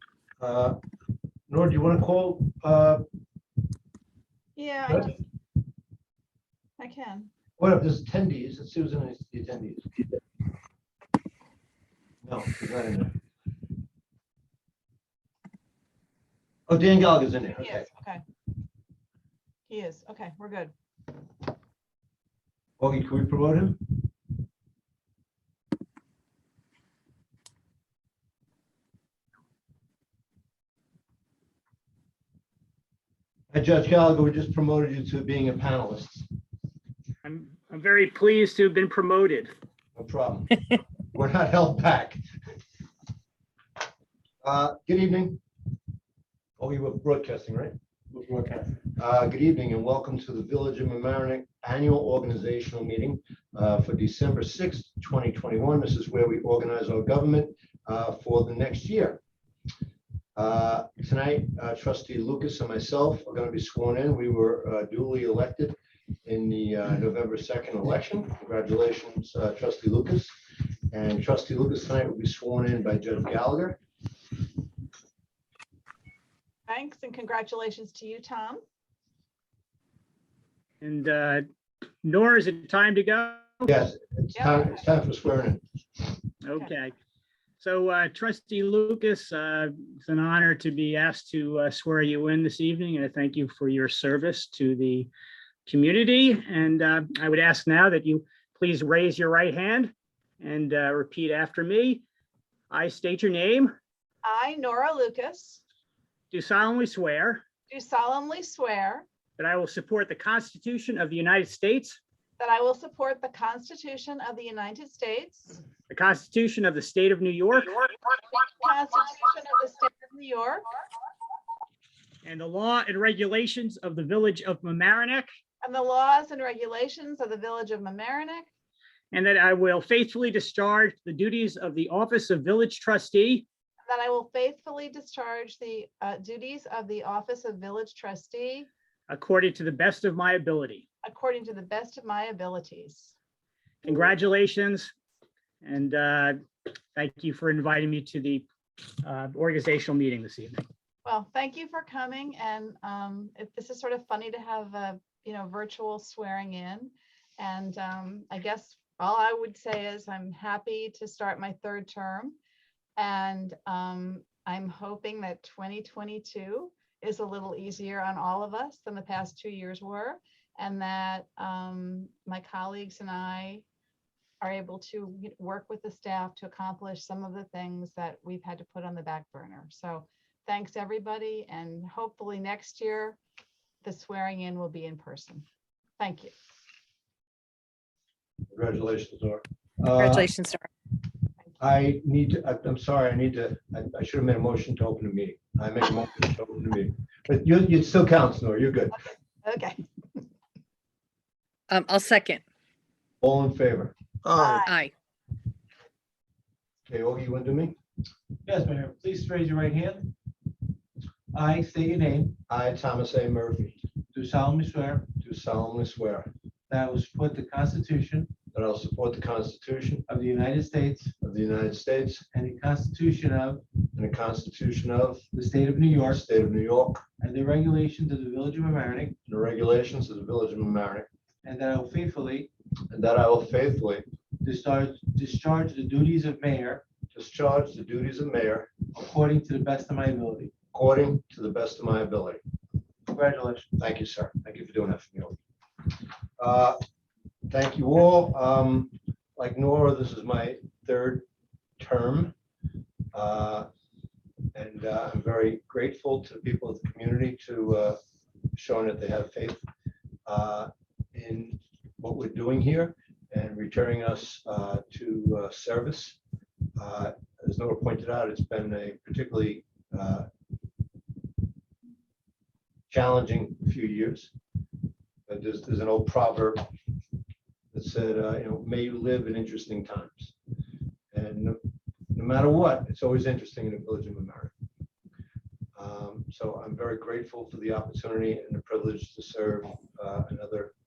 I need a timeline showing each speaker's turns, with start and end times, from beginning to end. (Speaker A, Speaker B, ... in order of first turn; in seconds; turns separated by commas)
Speaker A: 0.4-0.8, Speaker A: 1.5-3.0, Speaker B: 4.5-5.2, Speaker B: 6.8-7.3, Speaker A: 7.6-9.9, Speaker A: 12.2-13.1, Speaker A: 16.7-17.9, Speaker B: 17.6-18.2, Speaker B: 19.7-20.7, Speaker A: 22.8-24.0, Speaker A: 33.5-36.3, Speaker C: 37.2-39.5, Speaker A: 39.9-42.2, Speaker A: 44.4-45.4, Speaker A: 46.6-47.7, Speaker D: 48.1-48.8, Speaker A: 48.9-59.2, Speaker A: 60.4-70.3, Speaker A: 70.9-73.8, Speaker B: 76.7-78.6, Speaker C: 80.8-81.4, Speaker C: 82.0-83.7, Speaker A: 83.7-85.6, Speaker B: 84.3-84.8, Speaker C: 86.4-86.9, Speaker C: 87.6-95.1, Speaker C: 95.7-102.0, Speaker C: 102.7-103.7, Speaker B: 104.2-105.6, Speaker C: 106.3-107.4, Speaker B: 107.7-109.0, Speaker C: 109.4-112.0, Speaker B: 112.4-115.6, Speaker C: 115.9-117.8, Speaker B: 118.5-120.6, Speaker C: 122.2-125.3, Speaker B: 125.6-128.5, Speaker C: 129.1-133.4, Speaker B: 133.8-138.7, Speaker C: 139.1-140.8, Speaker B: 141.0-143.1, Speaker C: 143.8-144.9, Speaker C: 145.6-146.4, Speaker C: 146.9-148.4, Speaker C: 149.0-150.6, Speaker B: 151.0-162.4, Speaker B: 163.0-173.6, Speaker B: 174.4-183.2, Speaker B: 183.8-185.4, Speaker B: 186.0-186.3, Speaker A: 188.5-190.3, Speaker E: 189.9-190.6, Speaker A: 191.6-199.0, Speaker B: 199.1-199.8, Speaker E: 201.7-202.4, Speaker A: 203.2-203.9, Speaker E: 204.3-204.9, Speaker B: 204.3-204.8, Speaker A: 206.9-207.8, Speaker D: 208.4-210.1, Speaker D: 211.3-212.4, Speaker A: 212.5-213.8, Speaker D: 214.1-215.1, Speaker A: 215.2-216.3, Speaker D: 216.7-218.3, Speaker A: 218.5-220.1, Speaker D: 220.1-221.1, Speaker A: 221.2-222.2, Speaker D: 222.3-223.6, Speaker A: 223.9-225.2, Speaker D: 225.3-226.2, Speaker A: 226.0-227.0, Speaker D: 227.2-229.2, Speaker A: 229.2-231.1, Speaker D: 231.4-232.5, Speaker A: 232.9-234.0, Speaker D: 234.4-236.8, Speaker A: 237.1-238.7, Speaker D: 238.9-240.5, Speaker A: 240.7-242.4, Speaker D: 243.1-243.7, Speaker A: 243.8-245.4, Speaker A: 246.4-246.8, Speaker A: 247.5-251.2, Speaker A: 251.8-252.3, Speaker A: 253.1-253.7, Speaker A: 254.5-258.0, Speaker A: 258.5-259.6, Speaker A: 260.2-266.2, Speaker A: 266.8-270.3, Speaker A: 272.9-274.3, Speaker A: 275.3-276.6, Speaker A: 277.7-280.3, Speaker A: 281.1-281.6, Speaker A: 282.1-284.5, Speaker A: 285.8-290.7